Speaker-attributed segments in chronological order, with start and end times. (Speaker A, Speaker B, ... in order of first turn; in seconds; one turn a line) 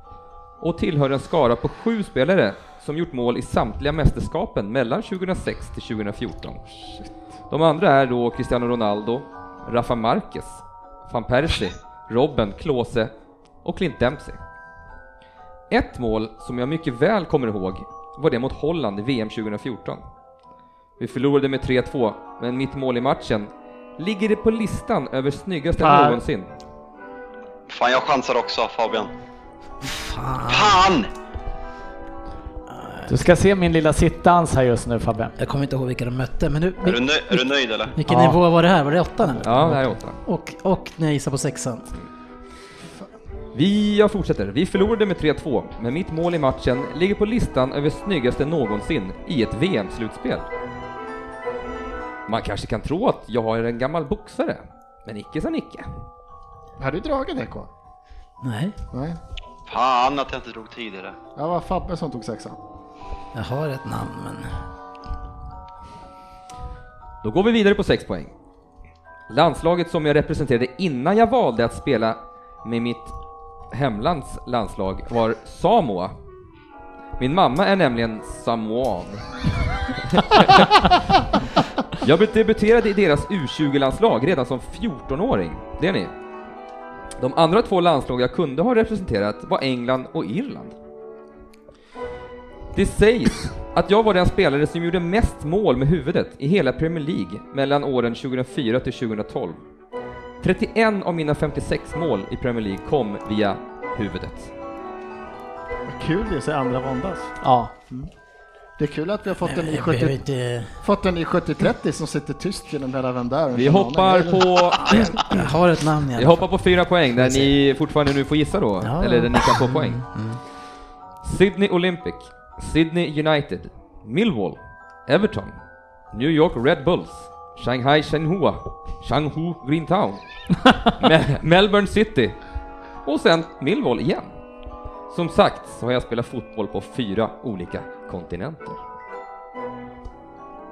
Speaker A: 0.6-6.6
Speaker B: 6.8-7.2
Speaker A: 7.5-13.1
Speaker A: 13.6-14.4
Speaker A: 15.7-20.0
Speaker A: 21.0-26.5
Speaker B: 25.8-26.2
Speaker C: 27.7-29.1
Speaker D: 29.8-30.8
Speaker C: 30.4-31.1
Speaker D: 32.7-33.2
Speaker E: 33.1-35.4
Speaker D: 35.4-41.9
Speaker C: 36.8-37.9
Speaker A: 39.4-40.2
Speaker E: 39.5-39.8
Speaker A: 43.5-50.5
Speaker A: 52.3-55.9
Speaker B: 56.8-57.7
Speaker D: 58.4-58.8
Speaker B: 58.9-59.2
Speaker C: 59.7-61.2
Speaker B: 61.4-62.6
Speaker D: 63.3-64.5
Speaker A: 67.2-68.3
Speaker A: 69.3-73.2
Speaker A: 73.7-76.1
Speaker A: 77.2-79.5
Speaker A: 80.1-80.9
Speaker A: 82.0-86.1
Speaker A: 87.2-90.8
Speaker A: 92.7-99.6
Speaker A: 100.4-104.5
Speaker B: 105.9-108.1
Speaker E: 107.4-107.7
Speaker B: 108.8-115.3
Speaker D: 109.4-110.8
Speaker A: 113.5-115.3
Speaker D: 114.9-117.5
Speaker A: 116.2-120.0
Speaker D: 118.8-120.4
Speaker A: 121.2-132.4
Speaker A: 133.0-134.3
Speaker A: 135.1-138.8